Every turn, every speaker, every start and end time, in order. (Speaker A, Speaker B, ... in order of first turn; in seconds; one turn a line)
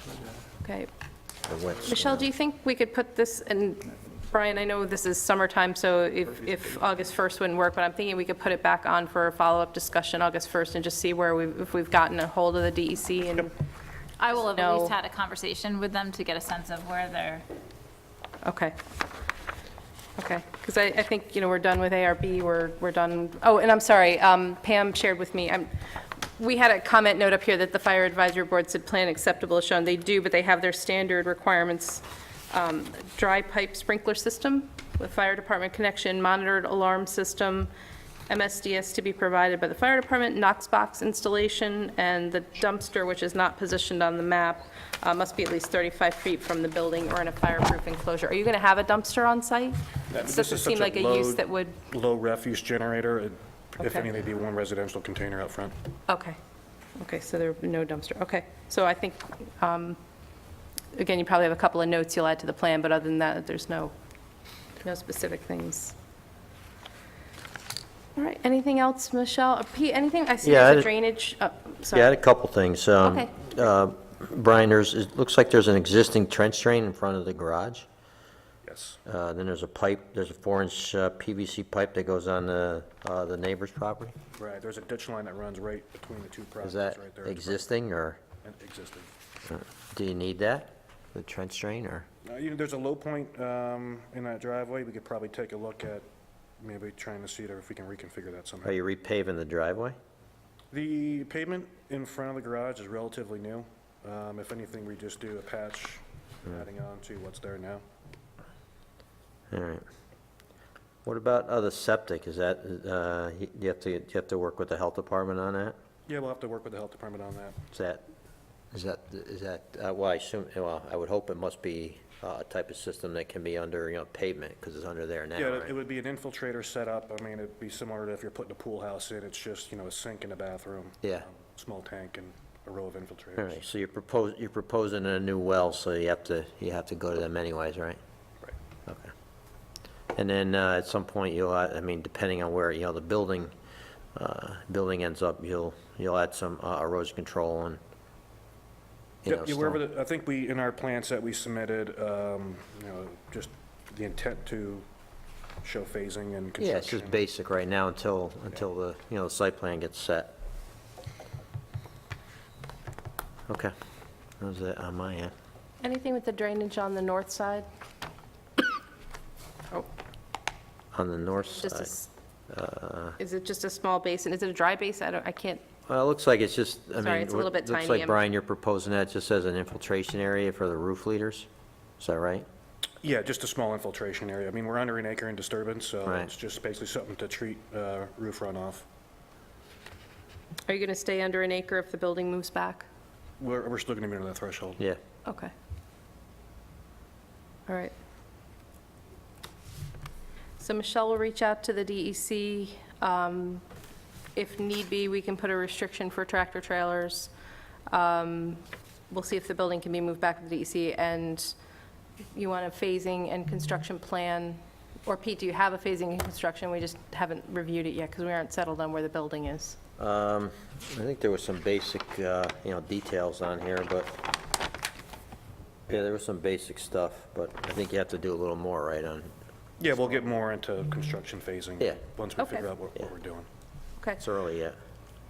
Speaker A: 0.6-0.9
Speaker B: 1.5-2.3
Speaker A: 1.8-13.5
Speaker C: 14.2-17.4
Speaker A: 14.3-15.0
Speaker A: 18.4-18.8
Speaker A: 20.2-25.7
Speaker A: 26.4-37.7
Speaker A: 38.3-51.8
Speaker D: 50.1-55.7
Speaker A: 56.1-56.4
Speaker A: 57.0-60.0
Speaker A: 60.9-63.9
Speaker A: 64.8-66.0
Speaker A: 68.2-72.2
Speaker B: 70.4-70.9
Speaker B: 71.9-77.9
Speaker A: 73.0-73.3
Speaker D: 78.7-79.0
Speaker B: 79.1-84.2
Speaker D: 84.3-87.7
Speaker B: 86.6-88.2
Speaker D: 88.4-89.1
Speaker B: 89.5-92.1
Speaker D: 92.2-96.1
Speaker D: 96.6-98.8
Speaker B: 98.6-100.0
Speaker D: 100.7-107.8
Speaker B: 109.5-109.8
Speaker B: 111.0-115.8
Speaker D: 116.1-117.6
Speaker B: 117.7-118.1
Speaker B: 118.7-125.7
Speaker D: 125.4-133.6
Speaker B: 133.4-138.0
Speaker B: 138.9-139.1
Speaker B: 140.2-143.5
Speaker B: 144.2-147.8
Speaker B: 149.2-149.8
Speaker D: 149.3-154.8
Speaker D: 155.6-157.2
Speaker B: 156.6-160.3
Speaker B: 164.4-165.3
Speaker A: 165.8-167.7
Speaker B: 170.9-171.9
Speaker A: 171.6-172.1
Speaker B: 172.5-173.2
Speaker A: 173.2-175.6
Speaker B: 175.9-181.5
Speaker A: 177.0-178.2
Speaker B: 182.0-182.5
Speaker D: 183.0-188.8
Speaker B: 186.1-186.3
Speaker A: 190.7-192.9
Speaker D: 193.4-194.8
Speaker A: 195.3-195.5
Speaker A: 197.7-197.9
Speaker A: 200.6-203.6
Speaker A: 204.3-207.3
Speaker A: 207.9-211.6
Speaker A: 212.3-219.8
Speaker B: 220.0-224.2
Speaker B: 225.9-229.3
Speaker D: 229.8-233.5
Speaker B: 229.9-230.2
Speaker A: 232.4-232.7
Speaker B: 234.2-234.8